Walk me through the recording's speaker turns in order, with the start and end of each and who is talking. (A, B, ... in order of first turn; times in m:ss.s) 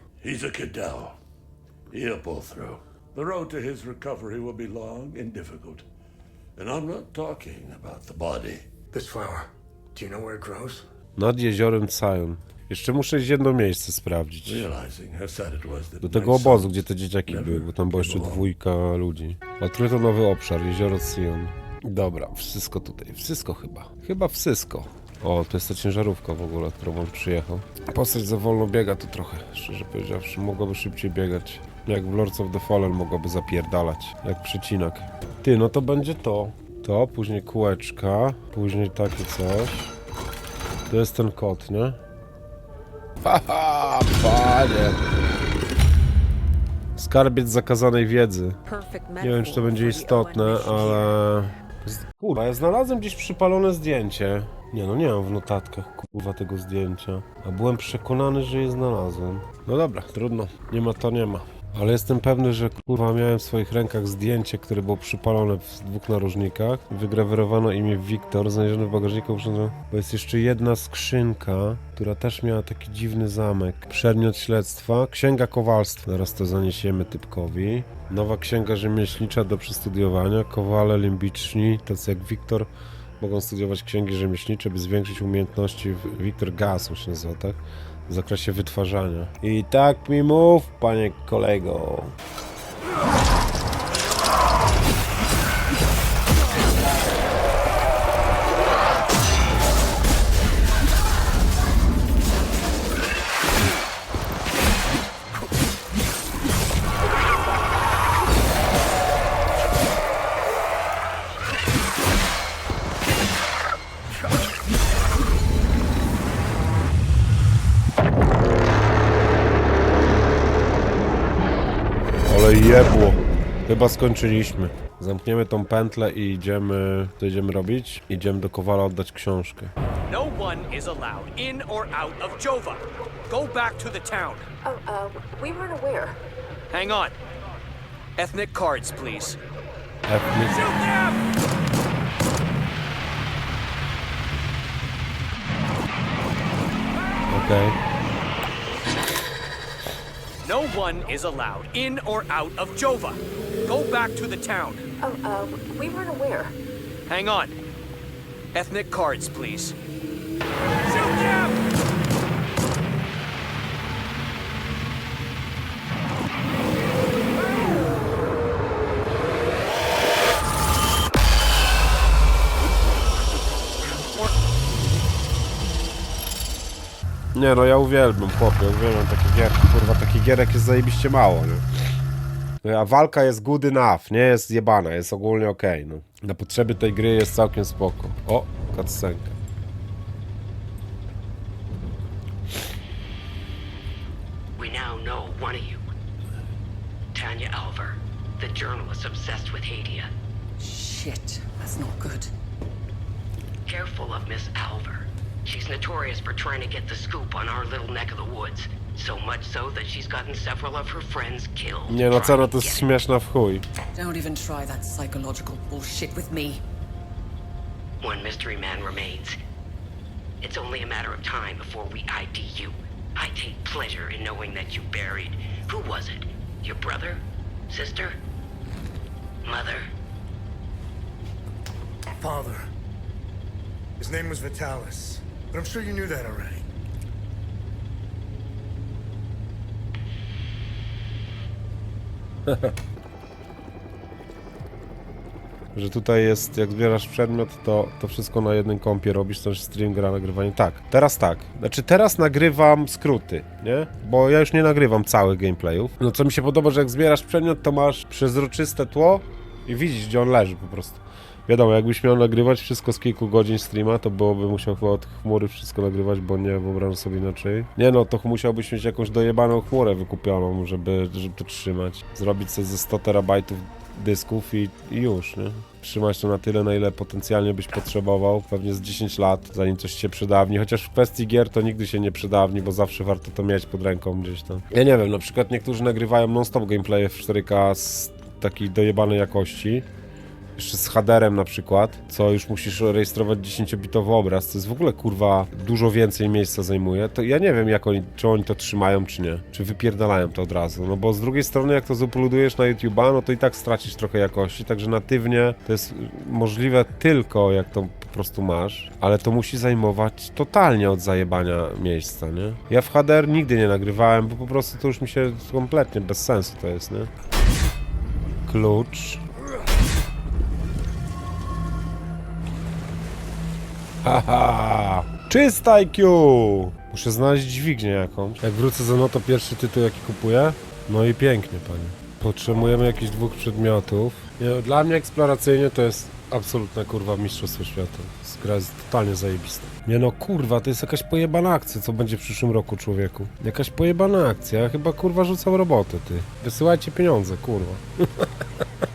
0:00.2-0:01.2 A
0:01.9-0:05.8 A
0:06.6-0:08.6 A
0:08.9-0:10.8 B
0:11.2-0:14.7 C
0:14.4-0:18.4 A
0:16.0-0:39.9 C
0:40.9-0:42.0 C
0:43.2-0:45.0 C
0:47.0-0:48.6 C
0:48.6-0:51.1 D
0:49.2-1:22.7 C
1:23.2-1:32.2 C
2:02.3-2:09.7 C
2:10.1-2:14.5 E
2:14.6-2:16.2 F
2:16.7-2:17.1 E
2:18.2-2:19.4 E
2:20.1-2:20.7 C
2:20.7-2:21.1 E
2:27.3-2:27.8 C
2:30.4-2:34.8 E
2:35.0-2:36.5 F
2:37.1-2:37.5 E
2:38.5-2:39.7 E
2:41.0-2:41.5 E
2:57.3-3:01.6 C
3:02.6-3:09.4 C
3:14.6-3:15.8 G
3:17.1-3:20.1 G
3:20.6-3:22.3 D
3:23.6-3:32.9 G
3:31.9-3:33.6 C
3:33.9-3:36.6 D
3:38.0-3:39.4 G
3:40.4-3:48.2 G
3:49.4-3:49.9 G
3:52.2-3:52.6 B
3:54.0-3:56.6 B
4:05.7-4:49.9 C
4:50.6-5:17.1 C
5:18.4-5:19.2 C
5:24.0-5:48.2 C